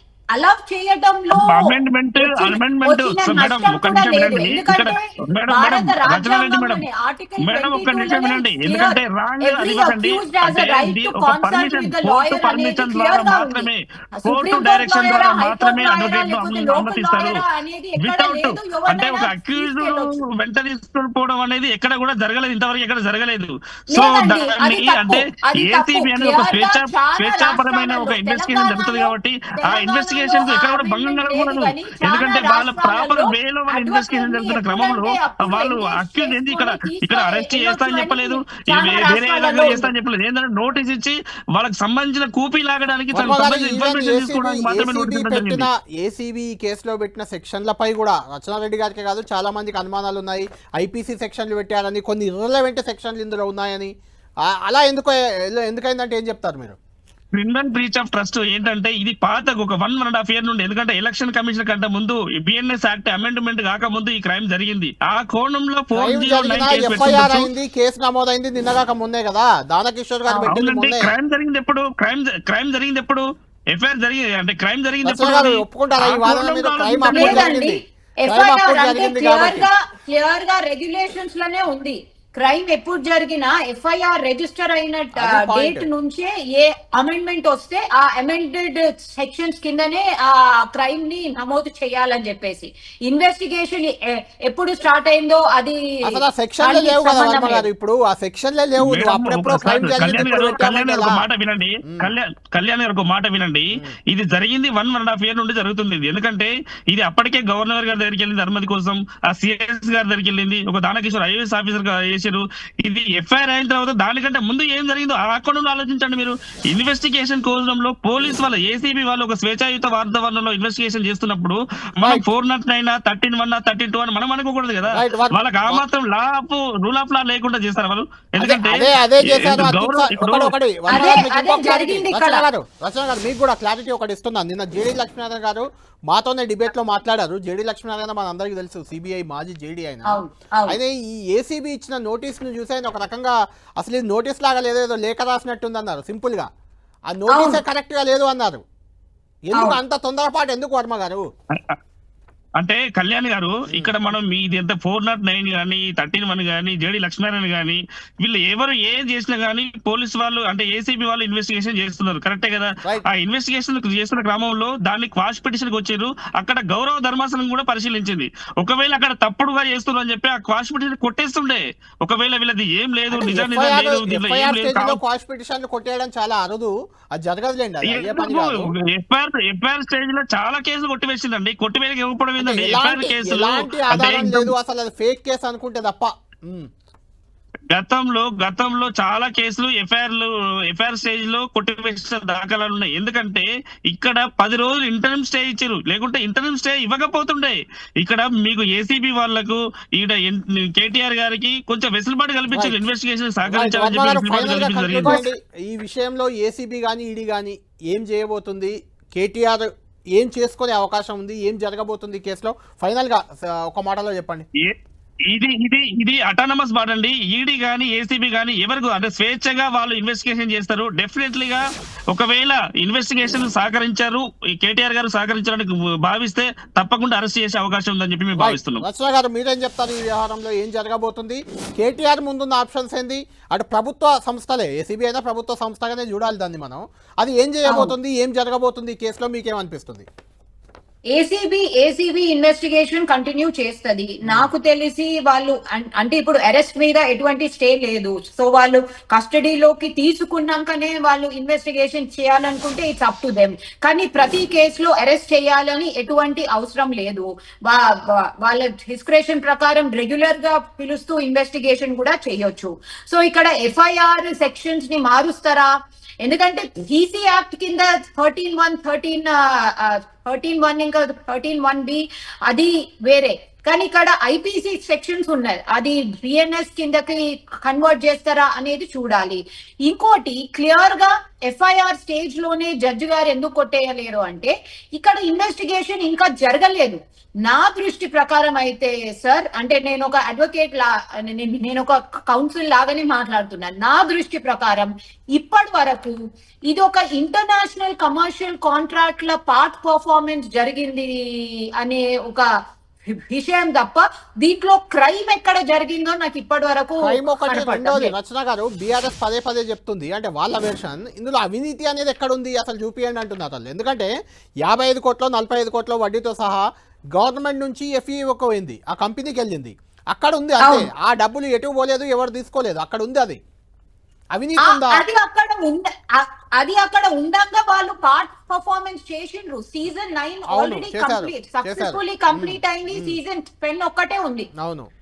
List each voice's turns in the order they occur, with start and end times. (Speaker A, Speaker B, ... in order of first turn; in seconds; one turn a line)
Speaker A: 0.3-13.7
Speaker B: 1.3-6.8
Speaker B: 7.4-17.4
Speaker A: 14.2-20.2
Speaker B: 18.0-45.7
Speaker A: 23.9-39.9
Speaker C: 43.1-53.9
Speaker C: 54.4-56.8
Speaker B: 57.3-67.5
Speaker C: 66.0-71.2
Speaker B: 70.5-77.5
Speaker C: 75.0-79.7
Speaker A: 77.1-96.1
Speaker C: 85.2-85.9
Speaker C: 96.1-101.2
Speaker A: 96.6-97.6
Speaker B: 98.8-130.5
Speaker C: 101.9-102.2
Speaker C: 124.9-125.8
Speaker C: 128.4-146.5
Speaker A: 130.9-132.5
Speaker A: 140.1-140.8
Speaker C: 147.1-148.6
Speaker A: 147.3-147.6
Speaker C: 149.5-151.3
Speaker B: 152.6-175.0
Speaker C: 153.7-154.0
Speaker C: 173.1-178.7
Speaker B: 177.8-184.5
Speaker C: 182.4-186.7
Speaker B: 187.7-205.2
Speaker C: 202.5-202.8
Speaker C: 203.4-214.5
Speaker B: 215.3-228.8
Speaker C: 228.3-240.1
Speaker A: 237.7-237.9
Speaker A: 241.1-296.2
Speaker A: 296.7-302.5
Speaker A: 303.1-308.1
Speaker C: 307.0-314.1
Speaker C: 314.6-323.4
Speaker A: 320.6-320.9
Speaker C: 324.3-325.0
Speaker A: 324.6-334.5
Speaker C: 330.5-333.2
Speaker C: 334.6-334.9